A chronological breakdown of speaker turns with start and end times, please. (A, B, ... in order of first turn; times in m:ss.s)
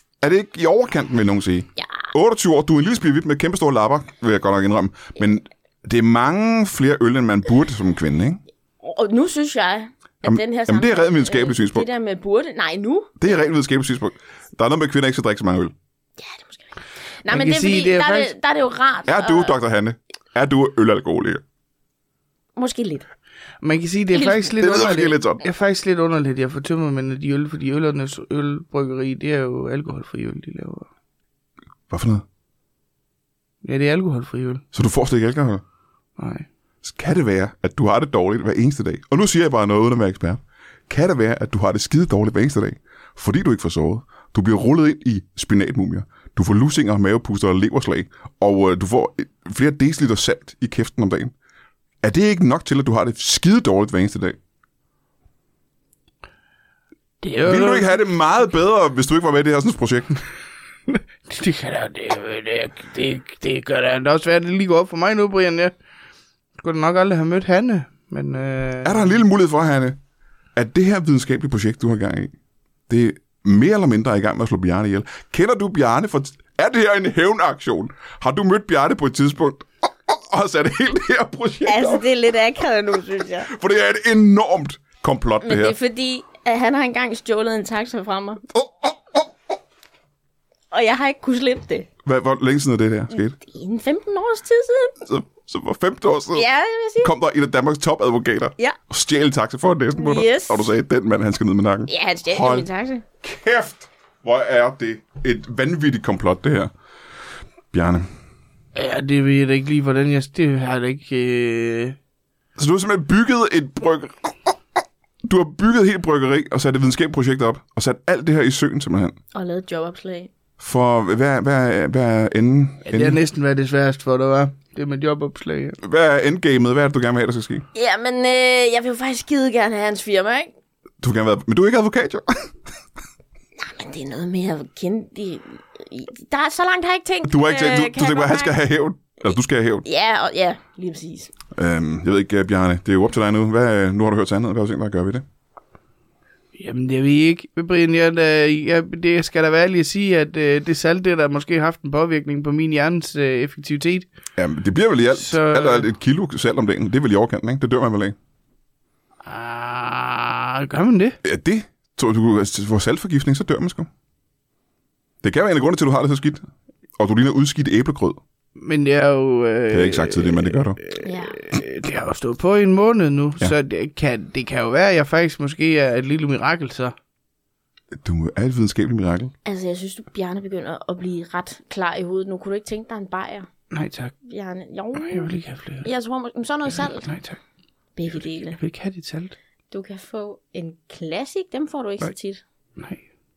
0:00.2-0:08.4 A
0:08.8-0:13.3 B
0:10.2-0:11.9 A
0:13.2-0:15.7 A
0:16.2-0:16.7 B
0:17.2-0:19.6 B
0:17.3-0:18.3 C
0:19.1-0:21.4 A
0:22.6-0:23.1 B
0:23.6-0:30.9 C
0:24.1-0:24.5 B
0:24.6-0:25.4 A
0:31.9-0:32.2 A
0:33.6-0:34.6 C
0:34.7-0:35.6 A
0:36.2-0:36.5 C
0:36.8-0:51.3 A
0:52.0-0:54.4 A
0:57.2-0:58.0 C
0:57.4-1:00.2 A
1:00.9-1:05.7 C
1:06.6-1:09.2 C
1:08.8-1:10.0 A
1:10.6-1:12.3 A
1:12.9-1:22.0 A
1:21.7-1:23.5 B
1:23.5-1:25.8 A
1:25.4-1:28.4 B
1:28.6-1:28.9 A
1:30.7-1:31.9 B
1:32.0-1:33.4 A
1:33.1-1:35.0 B
1:35.0-1:36.4 A
1:36.3-1:37.1 B
1:37.0-1:42.7 A
1:40.0-1:40.7 B
1:41.9-1:43.0 B
1:43.2-1:46.7 A
1:47.7-1:48.1 A
1:48.8-1:52.0 C
1:52.6-1:54.3 A
1:55.2-1:59.2 A
1:59.3-2:00.3 B
2:00.6-2:03.2 A
2:02.9-2:05.8 C
2:05.8-2:07.6 A
2:07.7-2:10.5 B
2:11.0-2:12.5 A
2:13.6-2:18.6 B
2:17.2-2:19.8 A
2:19.8-2:21.3 B
2:21.6-2:25.2 A
2:26.6-2:34.1 C
2:34.4-2:38.2 A
2:35.1-2:35.9 C
2:39.2-2:41.2 C
2:41.2-2:43.9 A
2:45.2-2:46.5 A
2:47.0-2:48.2 A
2:48.6-2:56.9 C
2:49.7-2:50.8 A
2:51.0-2:51.4 B
2:57.9-2:59.3 A
2:59.4-3:03.5 B
3:03.7-3:04.1 C
3:04.2-3:05.3 B
3:04.9-3:05.9 C
3:05.8-3:07.1 B
3:07.0-3:07.4 C
3:08.0-3:08.6 B
3:08.5-3:09.4 C
3:09.7-3:12.4 B